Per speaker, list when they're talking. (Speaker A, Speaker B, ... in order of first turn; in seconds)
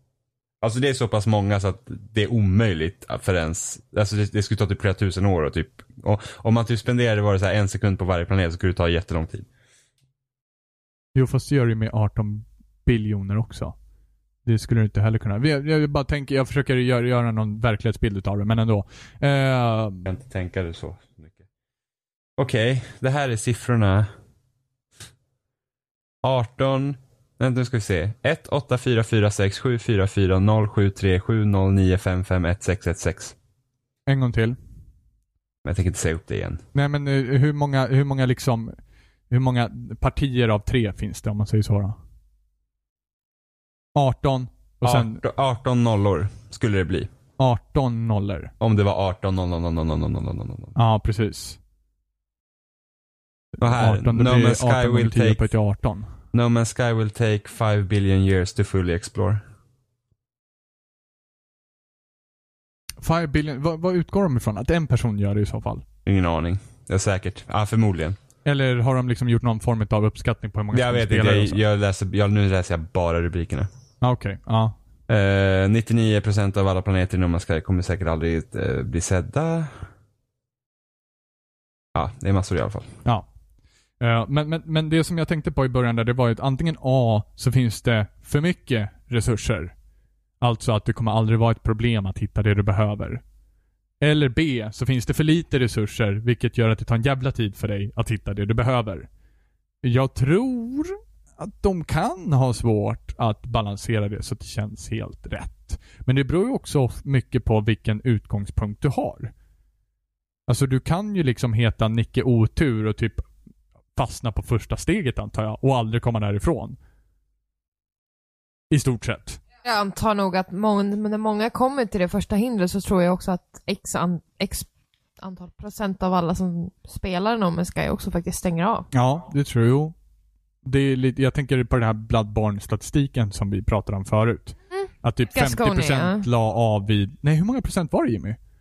Speaker A: 0.6-9.5, 20.1-21.4, 22.4-24.1, 26.2-33.3, 35.6-36.6, 44.8-47.1, 48.6-50.7, 53.6-55.5, 56.3-59.4, 66.0-68.2, 70.7-73.7, 75.1-79.8, 81.9-82.9
Speaker B: 11.2-13.8, 14.4-20.1, 34.1-34.6, 36.7-38.8, 39.3-42.0, 44.0-45.2, 47.4-48.5, 50.7-51.6, 53.6-56.1, 63.0-65.8, 68.4-71.6, 74.0-74.8, 84.0-89.7, 90.4-93.2, 94.0-99.1, 99.8-109.3, 110.5-113.3, 113.9-116.8, 118.7-119.4, 128.9-129.9, 130.6-138.4
Speaker C: 119.6-124.7, 125.2-128.9, 134.7-136.2